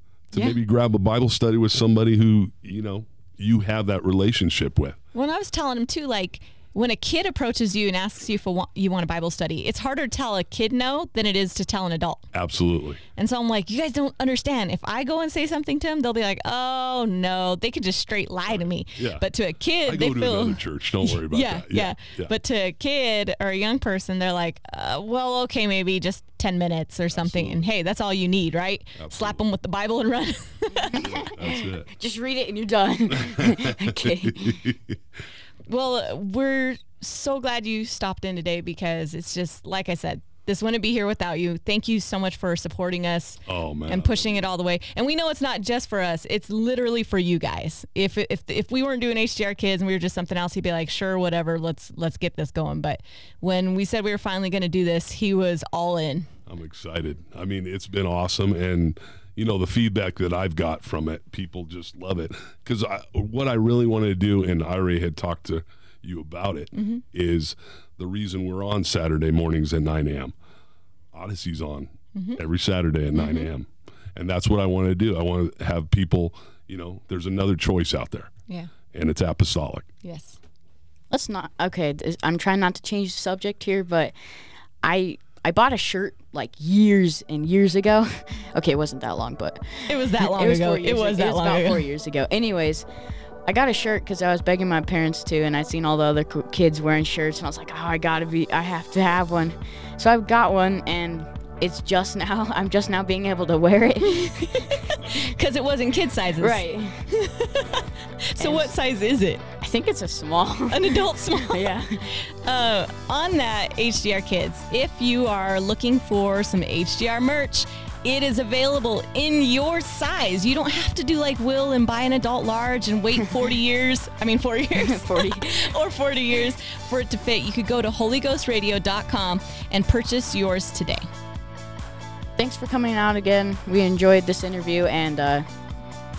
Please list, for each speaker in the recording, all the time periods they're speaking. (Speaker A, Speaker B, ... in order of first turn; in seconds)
Speaker A: 0.3-5.0, 12.3-13.0, 18.5-19.3, 19.9-22.3, 27.1-27.7, 29.0-29.4, 31.0-31.9, 33.2-35.0, 43.5-44.5, 56.5-70.3, 71.1-78.3, 78.9-79.9
Speaker B: 5.1-12.3, 13.2-31.1, 35.7-56.3, 66.7-67.0, 72.2-72.4, 73.1-73.5, 80.0-80.4, 89.9-91.8, 104.1-109.4, 110.7-131.1
Speaker C: 30.9-34.6, 81.1-84.1, 84.8-92.9, 93.5-105.2, 106.4-107.0, 108.4-108.7, 109.6-112.1, 124.8-125.7, 132.4-135.5